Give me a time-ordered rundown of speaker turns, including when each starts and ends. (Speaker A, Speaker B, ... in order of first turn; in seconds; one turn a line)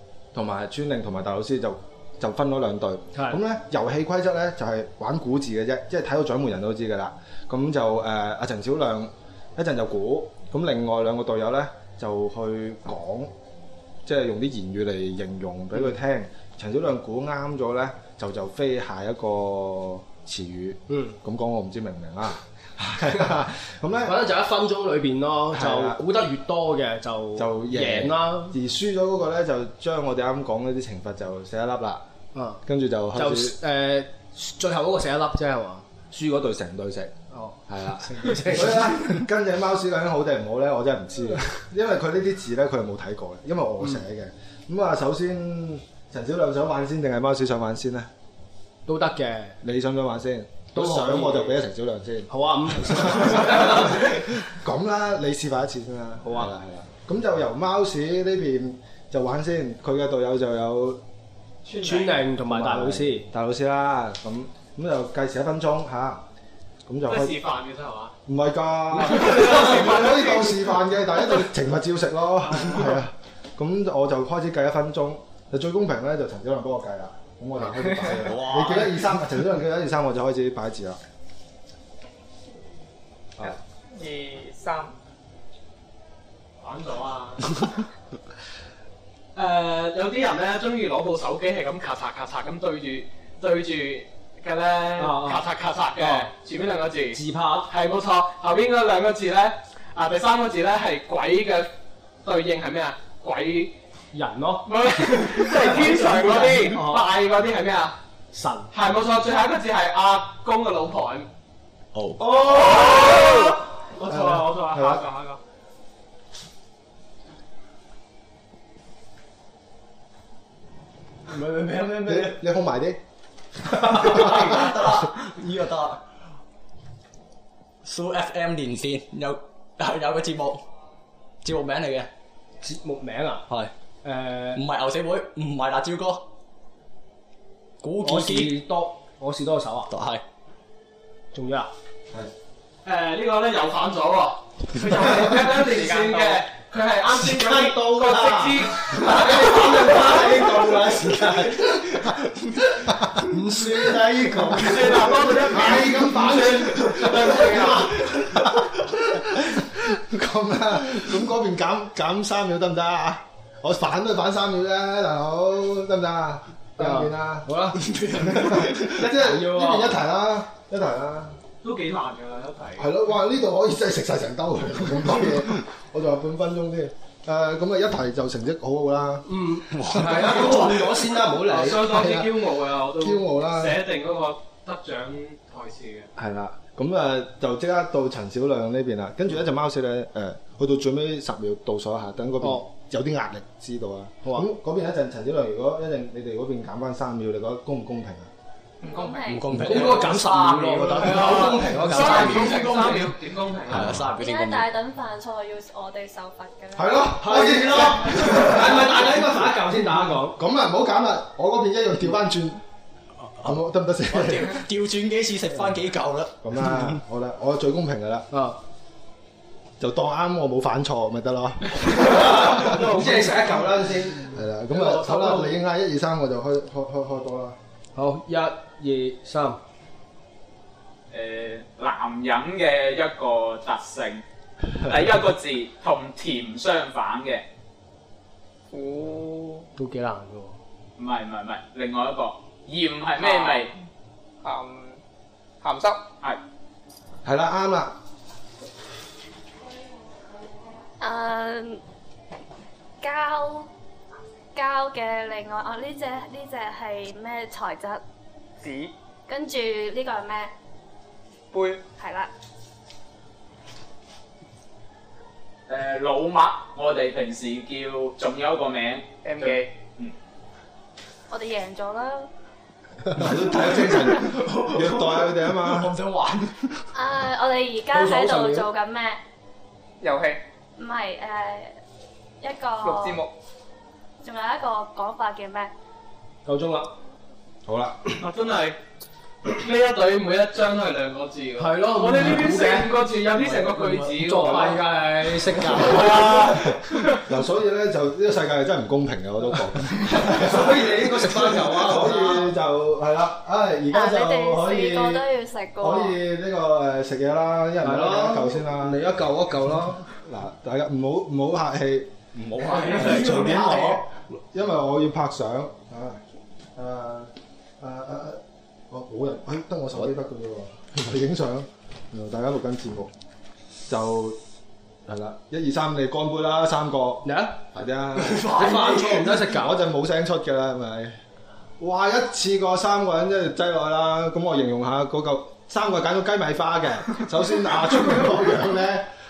Speaker A: 0.3-13.3
Speaker A: 14.0-24.2
Speaker B: 20.9-21.2
Speaker B: 24.0-28.6
Speaker A: 25.5-26.0
Speaker A: 27.4-32.0
Speaker B: 32.3-32.6
Speaker A: 32.6-33.6
Speaker B: 33.1-35.9
Speaker A: 36.1-37.1
Speaker B: 37.3-39.2
Speaker A: 37.7-48.1
Speaker B: 48.9-49.6
Speaker A: 49.6-61.0
Speaker B: 50.7-51.6
Speaker B: 52.3-53.9
Speaker B: 56.2-56.5
Speaker C: 61.6-62.2
Speaker B: 61.8-63.3
Speaker A: 62.4-66.2
Speaker A: 66.9-67.4
Speaker C: 67.0-68.1
Speaker A: 68.2-81.0
Speaker C: 69.0-70.6
Speaker D: 78.1-79.1
Speaker E: 83.4-84.9
Speaker C: 86.6-87.6
Speaker C: 89.3-101.7
Speaker B: 95.0-95.4
Speaker B: 96.0-96.3
Speaker B: 97.1-97.7
Speaker C: 102.2-103.7
Speaker B: 104.1-104.8
Speaker C: 104.6-108.0
Speaker B: 105.3-107.1
Speaker B: 108.3-108.7
Speaker C: 108.7-111.3
Speaker D: 111.9-112.2
Speaker C: 112.2-115.4
Speaker A: 114.0-115.0
Speaker B: 121.3-122.3
Speaker A: 122.0-123.0
Speaker D: 123.7-126.0
Speaker D: 127.8-130.6
Speaker D: 131.4-132.1
Speaker B: 132.6-133.4
Speaker B: 134.0-134.6
Speaker D: 134.5-136.2
Speaker D: 137.8-138.6
Speaker B: 138.0-139.9
Speaker D: 139.9-140.2
Speaker B: 141.3-141.7
Speaker C: 142.8-150.7
Speaker E: 145.5-146.4
Speaker A: 147.1-171.4
Speaker B: 153.2-154.7
Speaker C: 154.6-158.1
Speaker B: 166.8-167.8
Speaker D: 167.8-169.0
Speaker B: 168.5-170.0
Speaker C: 171.6-172.9
Speaker A: 172.8-179.3
Speaker B: 179.2-181.9
Speaker D: 179.7-181.0
Speaker C: 181.4-186.1
Speaker A: 181.8-183.8
Speaker A: 186.2-198.3
Speaker E: 198.8-199.2
Speaker F: 198.8-199.6
Speaker D: 199.2-203.1
Speaker B: 199.5-202.6
Speaker C: 200.2-204.0
Speaker D: 203.7-204.7
Speaker F: 204.0-207.2
Speaker A: 206.8-209.2
Speaker B: 207.2-210.4
Speaker A: 210.2-212.6
Speaker A: 213.4-214.6
Speaker D: 214.1-216.8
Speaker A: 216.4-218.3
Speaker B: 218.3-218.6
Speaker A: 219.8-223.7
Speaker B: 222.0-225.5
Speaker A: 224.2-227.6
Speaker B: 227.9-229.6
Speaker G: 231.1-234.2
Speaker G: 234.8-237.4
Speaker E: 238.7-239.7
Speaker B: 239.8-240.6
Speaker G: 241.0-243.7
Speaker E: 243.2-243.7
Speaker E: 244.4-245.0
Speaker E: 245.6-246.0
Speaker A: 247.2-247.9
Speaker F: 251.0-251.8
Speaker F: 253.0-253.7
Speaker F: 254.5-258.0
Speaker E: 258.6-258.9
Speaker F: 259.3-260.5
Speaker E: 261.5-261.8
Speaker F: 261.9-262.3
Speaker G: 265.7-270.1
Speaker E: 269.2-269.7
Speaker F: 271.3-272.3
Speaker A: 273.1-275.9
Speaker D: 273.3-276.8
Speaker F: 276.9-279.2
Speaker B: 277.9-278.7
Speaker E: 280.0-280.4
Speaker F: 280.8-281.8
Speaker F: 282.4-283.2
Speaker E: 282.8-283.3
Speaker F: 284.2-285.7
Speaker B: 286.4-286.9
Speaker A: 287.6-288.0
Speaker C: 288.2-288.8
Speaker C: 289.4-294.9
Speaker B: 291.6-292.9
Speaker D: 293.4-294.2
Speaker B: 294.1-296.5
Speaker C: 295.7-297.2
Speaker A: 297.3-305.2
Speaker B: 300.1-302.5
Speaker F: 303.9-306.2
Speaker A: 305.8-309.0
Speaker B: 307.8-310.0
Speaker A: 310.1-312.1
Speaker D: 312.3-314.0
Speaker A: 312.7-316.2
Speaker A: 316.8-323.1
Speaker A: 323.9-324.4
Speaker A: 325.1-328.6
Speaker B: 327.2-327.6
Speaker D: 328.2-329.4
Speaker B: 328.5-329.8
Speaker A: 329.4-331.2
Speaker A: 331.8-339.1